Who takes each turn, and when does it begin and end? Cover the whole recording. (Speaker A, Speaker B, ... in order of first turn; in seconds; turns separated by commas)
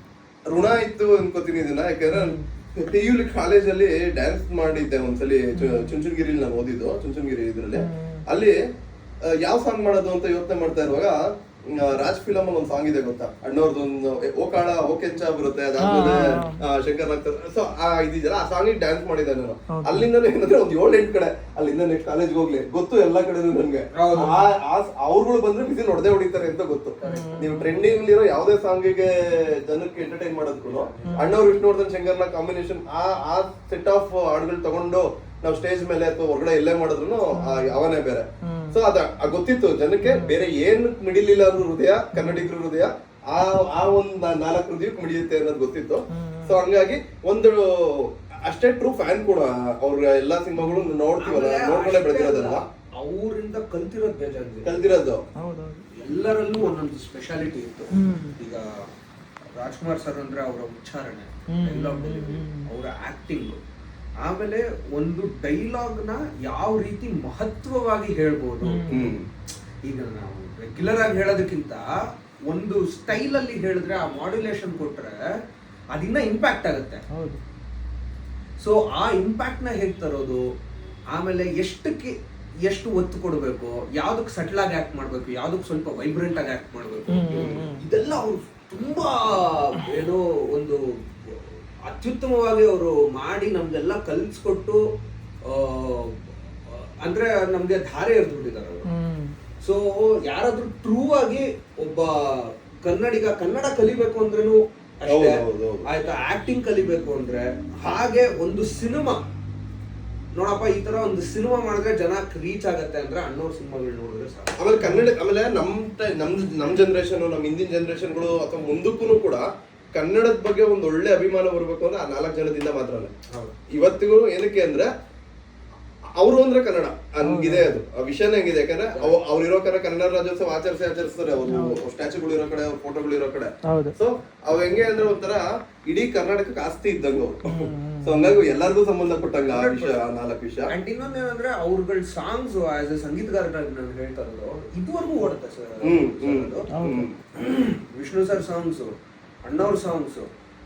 Speaker A: 0.5-8.6, Speaker B: 2.1-2.5, Speaker B: 5.5-5.9, Speaker B: 7.8-8.2, Speaker A: 9.2-52.6, Speaker B: 15.8-16.6, Speaker B: 19.7-20.1, Speaker C: 23.9-24.4, Speaker C: 27.0-27.5, Speaker B: 27.1-27.7, Speaker C: 30.6-31.4, Speaker B: 31.0-31.3, Speaker B: 37.3-37.8, Speaker B: 38.4-38.8, Speaker B: 40.0-40.4, Speaker B: 42.1-42.5, Speaker B: 46.1-46.6, Speaker C: 51.2-54.7, Speaker A: 54.6-55.2, Speaker B: 55.4-55.8, Speaker C: 55.9-58.8, Speaker B: 57.9-58.4, Speaker C: 59.5-63.6, Speaker B: 61.5-62.7, Speaker C: 64.2-68.9, Speaker B: 68.6-69.1, Speaker A: 68.9-69.2, Speaker C: 69.8-71.9, Speaker C: 72.5-75.2, Speaker C: 75.9-77.0, Speaker B: 77.1-77.4, Speaker C: 78.6-80.4, Speaker C: 81.1-94.8, Speaker B: 87.1-87.8, Speaker C: 95.4-98.8, Speaker B: 98.9-99.3, Speaker C: 99.6-109.3, Speaker A: 105.1-105.8, Speaker C: 110.3-114.6, Speaker A: 114.6-123.1, Speaker B: 114.8-115.1, Speaker C: 123.3-123.5, Speaker A: 123.7-124.9, Speaker A: 126.2-140.7, Speaker B: 127.2-127.7, Speaker B: 131.5-131.8, Speaker B: 133.7-134.0, Speaker B: 137.4-138.3, Speaker C: 139.4-140.0, Speaker C: 140.7-146.7, Speaker A: 145.8-147.2, Speaker B: 146.7-147.1, Speaker C: 147.3-150.3